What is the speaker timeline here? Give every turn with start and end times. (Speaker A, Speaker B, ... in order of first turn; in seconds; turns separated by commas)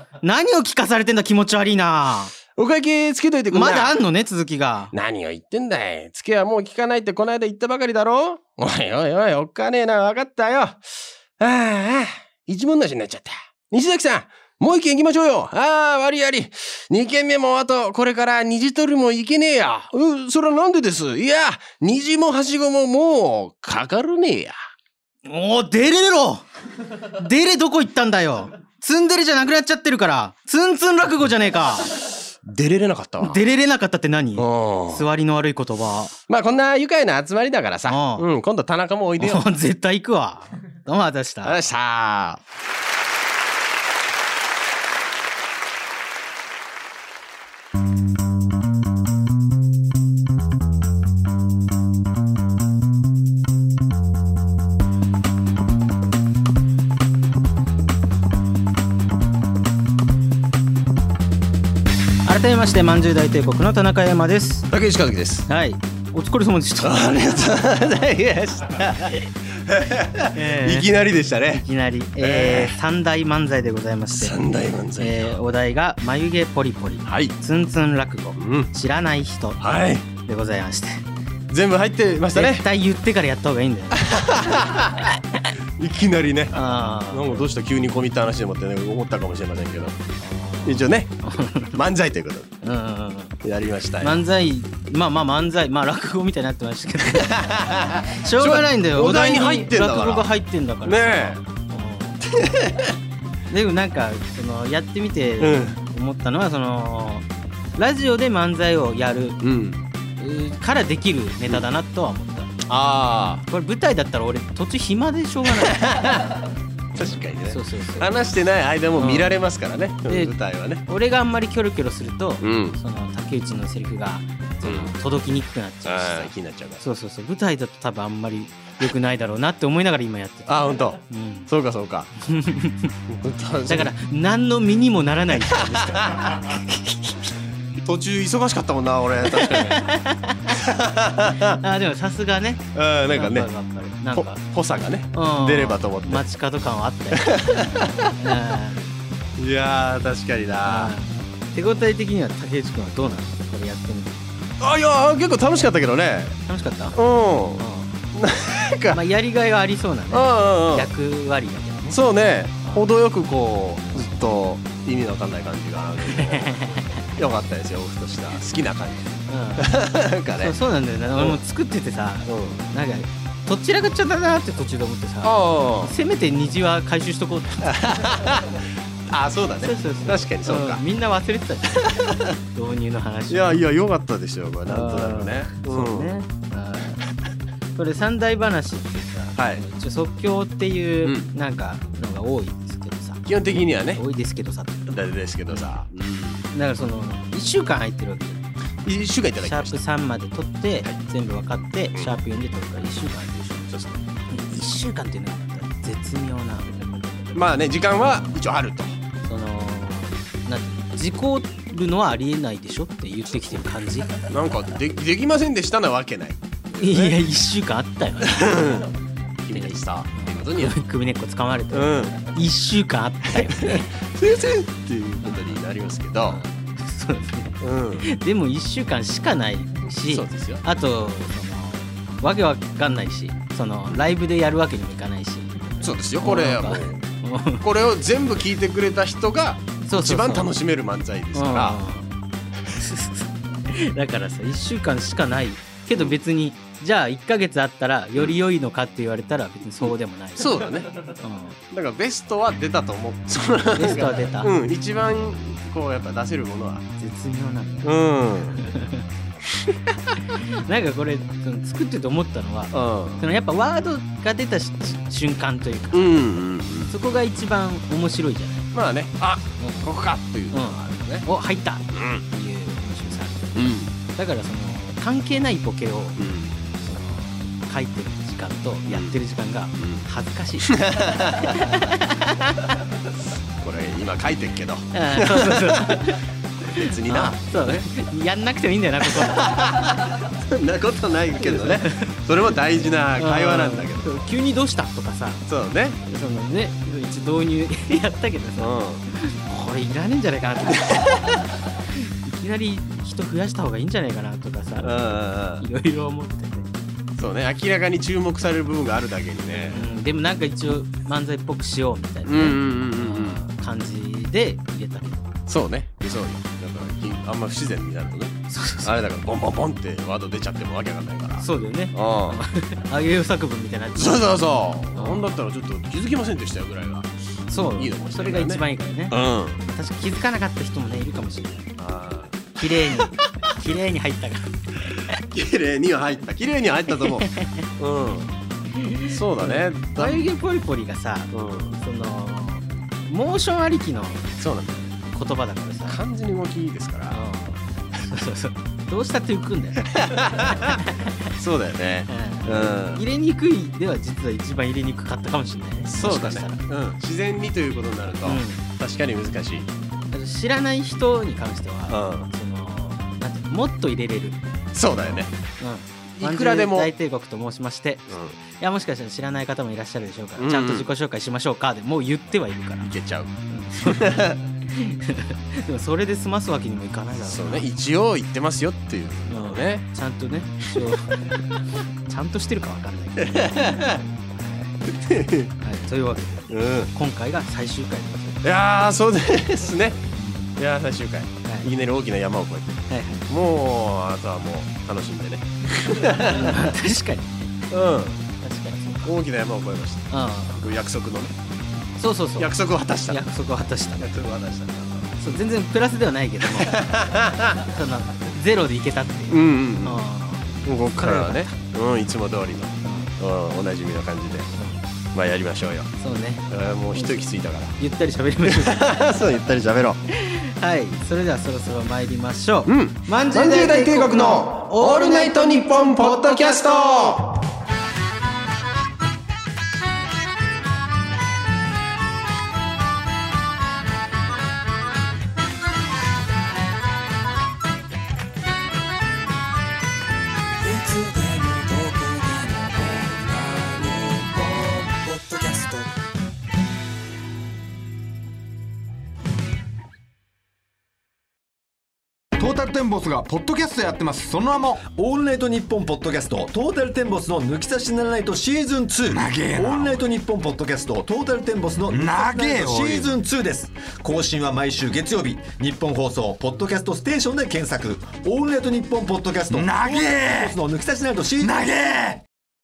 Speaker A: 0.2-2.3, Speaker B: 2.5-3.9, Speaker A: 3.5-4.9, Speaker B: 4.9-10.9, Speaker B: 11.4-24.5, Speaker A: 25.2-26.4, Speaker A: 27.1-31.9, Speaker B: 32.4-33.4, Speaker A: 33.2-36.1, Speaker B: 34.4-35.0, Speaker B: 36.3-39.4, Speaker A: 37.9-38.2, Speaker A: 39.2-41.6, Speaker B: 41.4-42.4, Speaker A: 62.2-64.7, Speaker B: 64.7-65.5, Speaker A: 65.5-67.5, Speaker B: 66.8-71.6, Speaker A: 70.3-70.9, Speaker A: 71.5-74.3, Speaker B: 72.2-72.8, Speaker B: 74.1-75.4, Speaker A: 75.0-79.6, Speaker B: 77.0-77.3, Speaker B: 78.4-78.7, Speaker B: 79.6-80.0, Speaker A: 80.1-81.0, Speaker B: 81.5-82.7, Speaker A: 82.3-84.6, Speaker B: 84.0-85.1, Speaker B: 85.8-86.5, Speaker A: 86.5-87.5, Speaker B: 87.1-90.0, Speaker A: 90.2-91.7, Speaker B: 90.6-91.1, Speaker B: 91.7-92.5, Speaker A: 92.6-93.3, Speaker B: 93.4-94.2, Speaker A: 94.0-97.4, Speaker B: 97.2-100.3, Speaker A: 98.2-102.2, Speaker B: 100.8-101.4, Speaker B: 102.3-102.9, Speaker A: 103.5-107.2, Speaker B: 105.4-105.8, Speaker A: 107.8-109.4, Speaker B: 109.4-109.8, Speaker A: 110.2-112.5, Speaker B: 112.7-113.4, Speaker A: 113.5-115.9, Speaker B: 115.5-116.3, Speaker B: 116.9-120.8, Speaker A: 117.5-118.1, Speaker A: 119.0-119.3, Speaker A: 120.1-120.3, Speaker A: 120.9-130.5, Speaker B: 122.4-122.8, Speaker B: 124.6-124.9, Speaker B: 125.8-126.8, Speaker B: 130.5-132.1, Speaker A: 131.1-131.5, Speaker A: 132.2-132.9, Speaker B: 133.1-133.9, Speaker A: 133.7-137.2, Speaker B: 135.9-136.4, Speaker B: 137.8-139.9, Speaker A: 139.3-140.5, Speaker B: 140.5-141.6, Speaker A: 141.6-144.4, Speaker B: 142.7-143.5, Speaker B: 144.1-146.2, Speaker A: 145.1-147.3, Speaker B: 147.2-148.1, Speaker A: 148.2-148.8, Speaker B: 149.4-150.9, Speaker A: 150.6-154.2, Speaker B: 154.6-156.4, Speaker A: 156.5-157.0, Speaker B: 156.9-159.0, Speaker A: 157.6-157.9, Speaker A: 158.9-162.0, Speaker B: 160.1-160.9, Speaker B: 161.9-170.6, Speaker A: 163.9-164.3, Speaker A: 166.2-167.1, Speaker A: 169.3-169.8, Speaker A: 170.4-177.8, Speaker B: 172.3-172.6, Speaker B: 175.2-175.9, Speaker B: 177.6-180.8, Speaker A: 179.6-182.0, Speaker B: 181.8-182.3, Speaker A: 182.5-183.6, Speaker B: 183.3-186.2, Speaker A: 184.7-187.0, Speaker A: 187.8-194.9, Speaker B: 189.3-189.6, Speaker B: 191.0-191.3, Speaker B: 193.2-194.0, Speaker B: 194.9-196.5, Speaker A: 196.5-198.4, Speaker B: 198.8-199.8, Speaker A: 199.4-203.7, Speaker B: 203.7-204.0, Speaker A: 204.3-208.4, Speaker B: 207.3-209.0, Speaker A: 209.2-214.2, Speaker B: 214.3-217.2, Speaker A: 216.8-218.9, Speaker B: 218.3-218.9, Speaker B: 219.4-220.7, Speaker A: 219.5-223.8, Speaker B: 221.7-222.2, Speaker B: 223.4-226.4, Speaker A: 225.2-225.6, Speaker A: 226.2-235.5, Speaker B: 227.6-228.1, Speaker B: 230.1-230.6, Speaker B: 235.8-237.0, Speaker A: 236.2-237.6, Speaker B: 237.6-241.8, Speaker A: 239.8-240.5, Speaker A: 241.3-242.1, Speaker A: 242.7-251.6, Speaker B: 249.8-250.9, Speaker B: 251.7-256.9, Speaker A: 253.7-254.5, Speaker A: 257.0-257.9, Speaker B: 257.8-258.6, Speaker A: 258.6-259.0, Speaker A: 260.3-266.3, Speaker B: 262.7-263.2, Speaker B: 265.9-266.9, Speaker A: 266.9-268.7, Speaker B: 268.7-271.3, Speaker A: 269.6-269.9, Speaker A: 270.5-276.2, Speaker B: 271.9-272.2, Speaker B: 273.5-273.9, Speaker B: 276.2-276.5, Speaker A: 276.7-280.8, Speaker B: 278.9-279.1, Speaker B: 279.8-280.1, Speaker B: 280.7-281.7, Speaker A: 281.4-282.6, Speaker B: 283.6-287.8, Speaker A: 284.9-289.6, Speaker B: 289.1-294.1, Speaker A: 291.4-295.4, Speaker B: 295.5-296.0, Speaker A: 296.0-301.0, Speaker B: 298.6-299.0, Speaker A: 301.9-304.9, Speaker B: 304.8-305.6, Speaker A: 305.6-306.7, Speaker B: 307.2-309.8, Speaker A: 309.5-315.2, Speaker B: 312.2-313.4, Speaker B: 315.5-322.4, Speaker A: 318.5-318.9, Speaker A: 321.4-324.3, Speaker B: 323.9-329.6, Speaker A: 324.9-325.3, Speaker A: 327.5-331.7, Speaker B: 331.8-333.0, Speaker A: 332.6-334.5, Speaker B: 335.3-337.3, Speaker A: 337.0-337.7, Speaker B: 337.8-338.3, Speaker A: 338.7-344.3, Speaker B: 339.1-340.2, Speaker B: 341.3-341.8, Speaker B: 344.4-344.9, Speaker A: 345.1-346.0, Speaker B: 345.9-347.2, Speaker A: 347.1-349.9, Speaker B: 349.9-350.8, Speaker A: 350.8-351.1, Speaker B: 351.4-353.0, Speaker A: 352.1-356.6, Speaker B: 355.8-359.7, Speaker A: 358.2-358.6, Speaker A: 360.1-364.4, Speaker B: 361.9-362.3, Speaker B: 364.7-365.3, Speaker A: 364.9-372.9, Speaker B: 366.1-366.9, Speaker B: 368.1-368.4, Speaker B: 370.4-370.9, Speaker B: 372.8-374.4, Speaker A: 373.5-377.6, Speaker B: 377.2-379.8, Speaker A: 379.3-381.2, Speaker A: 382.1-383.7, Speaker B: 383.2-384.0, Speaker A: 384.3-384.8, Speaker B: 384.9-385.5, Speaker A: 385.6-388.4, Speaker B: 386.5-386.9, Speaker B: 388.4-390.0, Speaker A: 390.1-390.5, Speaker B: 390.6-396.7, Speaker A: 391.4-391.7, Speaker A: 392.9-393.2, Speaker A: 396.1-397.5, Speaker B: 397.7-398.2, Speaker A: 398.4-399.1, Speaker B: 399.0-401.3, Speaker A: 400.1-400.6, Speaker A: 402.0-402.5, Speaker B: 402.4-403.2, Speaker A: 403.1-404.0, Speaker B: 404.0-405.1, Speaker A: 405.2-406.8, Speaker B: 406.6-407.6, Speaker A: 407.7-411.5, Speaker B: 409.3-410.0, Speaker B: 410.6-414.5, Speaker A: 412.8-413.1, Speaker B: 415.1-415.9, Speaker A: 416.0-418.8, Speaker B: 416.5-417.8, Speaker B: 418.5-420.0, Speaker A: 420.1-426.6, Speaker B: 422.7-427.4, Speaker C: 440.6-445.9, Speaker C: 452.4-454.8, Speaker D: 454.8-471.6, Speaker C: 459.1-460.0, Speaker C: 461.9-463.1, Speaker C: 469.5-470.5, Speaker C: 471.4-472.2